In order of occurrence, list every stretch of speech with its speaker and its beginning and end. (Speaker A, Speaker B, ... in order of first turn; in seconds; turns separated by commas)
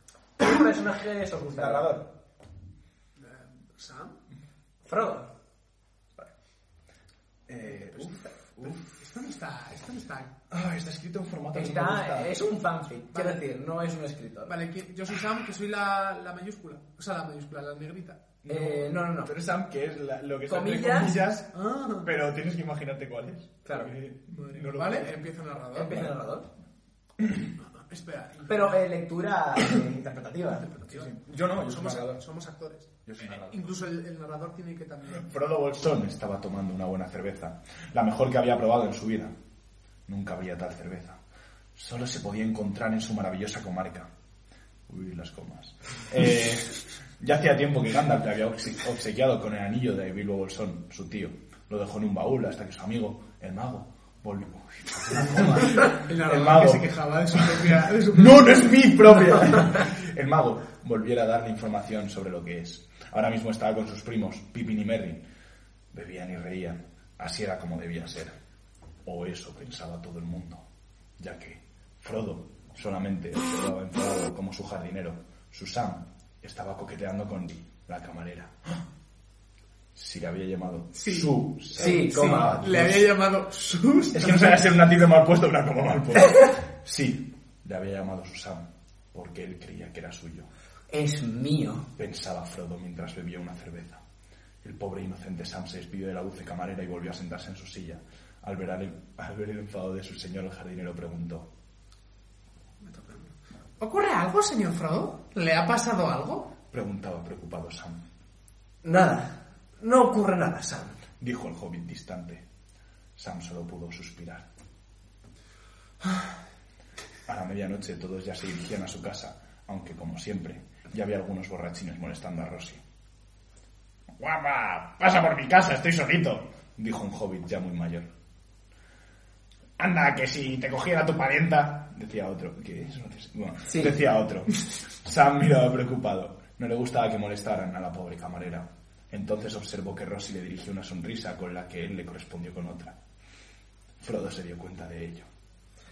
Speaker A: 0.4-2.0, Speaker B: 1.5-2.1, Speaker C: 3.2-4.2, Speaker A: 4.8-5.3, Speaker B: 7.5-9.0, Speaker C: 8.7-10.3, Speaker B: 10.5-12.3, Speaker A: 11.5-14.6, Speaker C: 13.1-13.4, Speaker C: 14.5-18.2, Speaker B: 18.4-21.5, Speaker A: 18.5-19.3, Speaker A: 20.5-21.2, Speaker C: 21.5-22.1, Speaker B: 22.0-25.1, Speaker A: 23.6-23.9, Speaker C: 24.3-26.1, Speaker A: 25.7-26.5, Speaker B: 27.2-27.5, Speaker C: 27.6-28.8, Speaker A: 28.5-30.7, Speaker C: 30.6-35.3, Speaker B: 30.9-32.2, Speaker B: 33.1-33.6, Speaker B: 35.1-39.3, Speaker B: 40.1-41.2, Speaker B: 41.8-44.1, Speaker B: 44.9-65.2, Speaker C: 55.4-59.0, Speaker B: 65.9-68.4, Speaker B: 69.0-70.6, Speaker B: 71.2-78.8, Speaker B: 80.0-83.1, Speaker C: 81.0-84.7, Speaker A: 81.8-82.6, Speaker B: 84.1-90.5, Speaker A: 90.9-91.9, Speaker B: 92.0-94.0, Speaker B: 94.6-101.5, Speaker C: 102.8-106.5, Speaker B: 106.7-108.0, Speaker A: 108.8-111.0, Speaker B: 111.2-112.4, Speaker B: 113.2-114.5, Speaker B: 117.3-122.8, Speaker B: 124.2-128.1, Speaker B: 129.8-143.0, Speaker A: 133.7-133.9, Speaker B: 144.0-145.3